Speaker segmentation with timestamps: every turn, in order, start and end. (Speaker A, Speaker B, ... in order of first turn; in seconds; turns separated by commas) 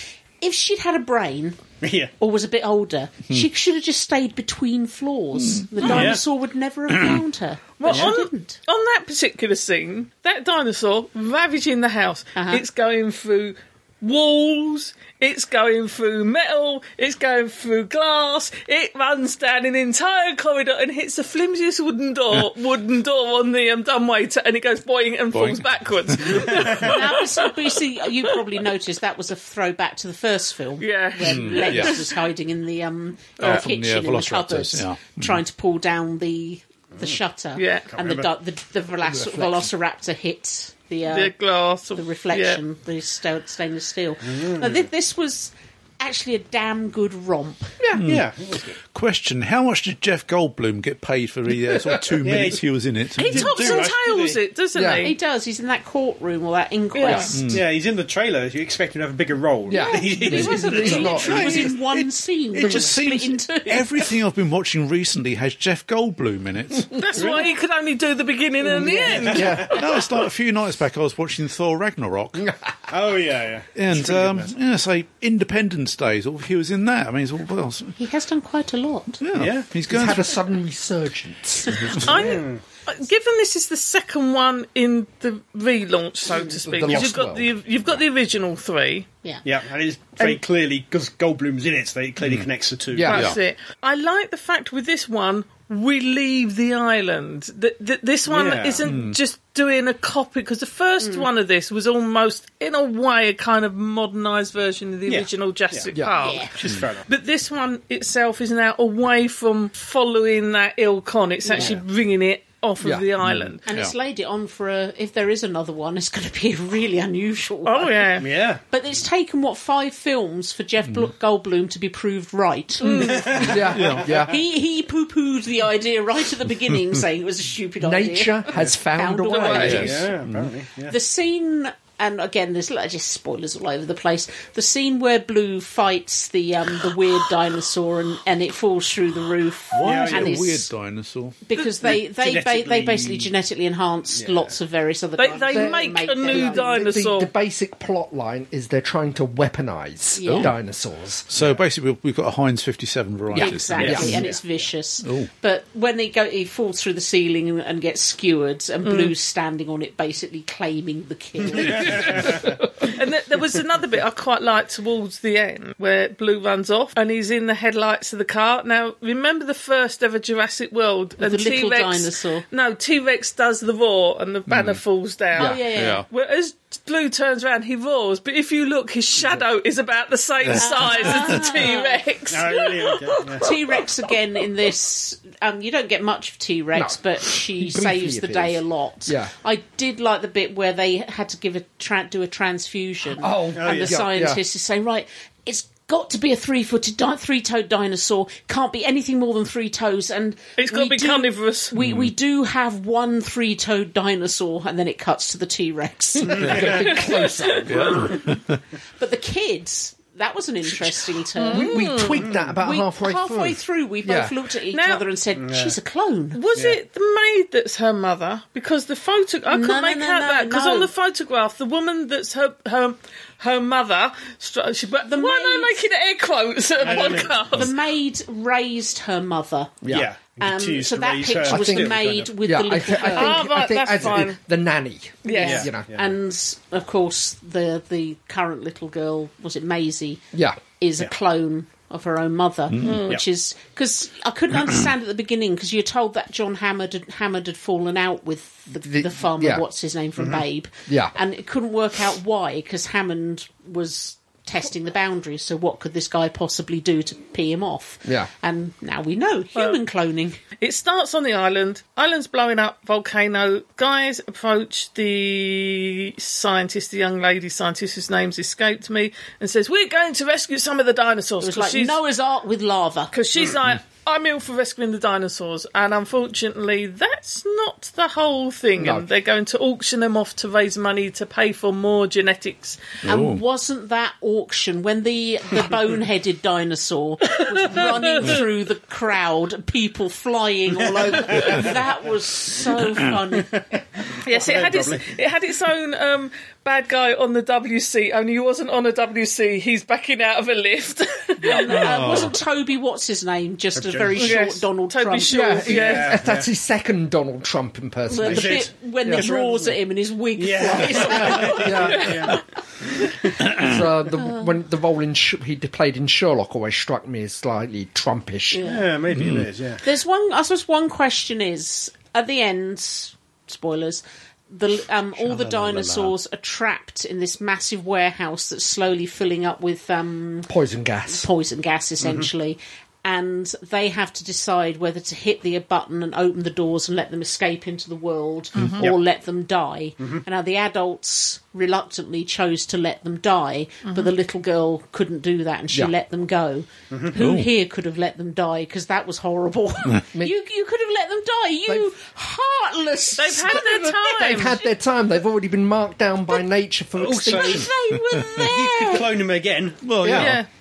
Speaker A: 0.4-1.6, Speaker B: 1.8-2.1, Speaker A: 2.2-8.6, Speaker B: 5.8-6.2, Speaker C: 7.8-28.4, Speaker B: 7.9-8.1, Speaker A: 12.3-12.6, Speaker D: 25.3-26.7, Speaker B: 26.5-26.9, Speaker A: 26.5-41.3, Speaker C: 30.8-32.1, Speaker D: 31.2-32.0, Speaker D: 33.4-35.4, Speaker C: 37.5-37.9, Speaker B: 37.9-38.3, Speaker E: 39.0-39.7, Speaker C: 41.1-42.6, Speaker A: 41.9-47.8, Speaker B: 44.3-44.9, Speaker E: 47.8-48.0, Speaker D: 48.0-48.3, Speaker B: 48.0-48.7, Speaker D: 48.9-53.8, Speaker B: 52.2-54.4, Speaker C: 53.1-55.1, Speaker E: 54.7-55.1, Speaker A: 55.0-57.4, Speaker C: 56.9-57.3, Speaker D: 57.3-57.7, Speaker B: 57.5-61.7, Speaker E: 59.7-61.7, Speaker A: 59.7-64.2, Speaker D: 61.0-67.1, Speaker C: 66.9-69.7, Speaker B: 67.2-67.5, Speaker B: 68.8-70.2, Speaker E: 69.2-69.8, Speaker D: 69.3-72.5, Speaker B: 72.9-74.5, Speaker D: 73.7-77.9, Speaker A: 78.0-79.2, Speaker D: 79.2-80.3, Speaker B: 79.3-79.7, Speaker E: 79.9-82.2, Speaker B: 82.0-82.6, Speaker C: 82.0-89.1, Speaker E: 86.6-87.5, Speaker B: 89.4-93.3, Speaker E: 92.9-93.3, Speaker C: 93.1-113.6, Speaker D: 93.1-93.4, Speaker B: 98.2-98.8, Speaker D: 98.8-99.2, Speaker A: 101.0-101.3, Speaker B: 105.1-105.9, Speaker E: 105.9-106.4, Speaker A: 106.2-106.5, Speaker B: 106.5-107.1, Speaker A: 111.5-111.8, Speaker B: 111.5-111.8, Speaker E: 112.8-113.1, Speaker D: 113.2-113.9, Speaker A: 113.7-123.6, Speaker C: 117.6-118.3, Speaker B: 118.2-118.6, Speaker C: 122.8-123.6, Speaker B: 122.8-124.3, Speaker E: 123.4-124.3, Speaker D: 123.7-124.1, Speaker A: 124.3-130.1, Speaker E: 127.8-130.0, Speaker B: 129.5-130.9, Speaker D: 129.5-130.5, Speaker A: 130.9-140.7, Speaker D: 139.7-141.4, Speaker B: 139.8-140.5, Speaker A: 141.4-146.7, Speaker B: 141.8-143.3, Speaker B: 144.1-144.5, Speaker C: 145.2-147.3, Speaker E: 145.5-151.3, Speaker A: 150.1-150.5, Speaker D: 150.2-150.5, Speaker D: 151.3-154.3, Speaker B: 151.3-151.6, Speaker E: 153.3-154.2, Speaker A: 153.3-162.3, Speaker B: 153.7-154.4, Speaker D: 155.0-155.3, Speaker C: 158.8-159.1, Speaker B: 161.5-162.5, Speaker C: 162.8-183.8, Speaker A: 171.2-172.4, Speaker D: 174.5-174.8, Speaker E: 175.4-175.7, Speaker A: 175.4-176.0, Speaker D: 175.7-176.1, Speaker D: 180.4-181.4, Speaker A: 180.5-182.1, Speaker B: 182.3-183.5, Speaker A: 183.4-207.0, Speaker E: 186.7-189.3, Speaker E: 193.2-194.4, Speaker B: 193.5-194.0, Speaker C: 200.6-201.7, Speaker D: 201.8-202.1, Speaker E: 206.2-208.1, Speaker B: 206.3-206.9, Speaker C: 206.7-208.1, Speaker D: 207.7-208.6, Speaker A: 209.0-212.0, Speaker C: 211.3-212.3, Speaker E: 211.5-214.3, Speaker A: 212.6-216.4, Speaker C: 214.7-215.0, Speaker B: 215.4-215.8, Speaker C: 216.3-227.7, Speaker B: 216.5-216.8, Speaker A: 219.5-220.9, Speaker A: 225.0-225.8, Speaker B: 226.8-227.7, Speaker A: 226.8-229.8, Speaker E: 229.8-230.1, Speaker B: 229.9-232.3, Speaker A: 230.4-233.6, Speaker E: 231.4-235.9, Speaker C: 233.0-234.4, Speaker C: 235.2-235.7, Speaker A: 235.2-240.2, Speaker B: 235.4-236.1, Speaker E: 240.3-240.6, Speaker A: 240.8-260.4, Speaker D: 242.7-243.0, Speaker C: 242.8-243.2, Speaker E: 248.8-249.6, Speaker B: 250.2-250.4, Speaker E: 250.9-251.1, Speaker E: 258.0-258.3, Speaker C: 260.6-272.0, Speaker A: 271.4-273.1, Speaker C: 273.1-282.9, Speaker E: 278.8-279.1, Speaker D: 283.0-283.4, Speaker A: 283.0-293.5, Speaker C: 287.3-288.4, Speaker B: 290.7-291.9, Speaker B: 293.3-295.1, Speaker C: 294.2-301.9, Speaker A: 301.4-305.7, Speaker D: 301.7-302.3, Speaker B: 303.7-304.4, Speaker C: 304.2-306.2, Speaker E: 305.3-309.2, Speaker B: 305.6-306.5, Speaker A: 308.1-312.4, Speaker B: 308.2-309.8, Speaker B: 310.4-313.5, Speaker E: 311.1-312.3, Speaker E: 313.4-318.7, Speaker D: 313.5-313.7, Speaker A: 314.1-314.5, Speaker A: 318.5-318.9, Speaker B: 318.6-319.8, Speaker D: 319.1-319.5, Speaker A: 319.8-330.5, Speaker B: 325.2-326.1, Speaker E: 330.5-331.3, Speaker A: 331.1-354.6, Speaker B: 332.0-332.3, Speaker C: 343.8-344.1, Speaker D: 347.2-347.5, Speaker E: 351.7-351.9, Speaker C: 353.2-354.6, Speaker E: 353.3-357.7, Speaker B: 356.9-357.7, Speaker A: 357.3-359.1, Speaker B: 358.3-360.4, Speaker D: 359.8-360.4, Speaker E: 360.0-360.4, Speaker C: 360.1-360.5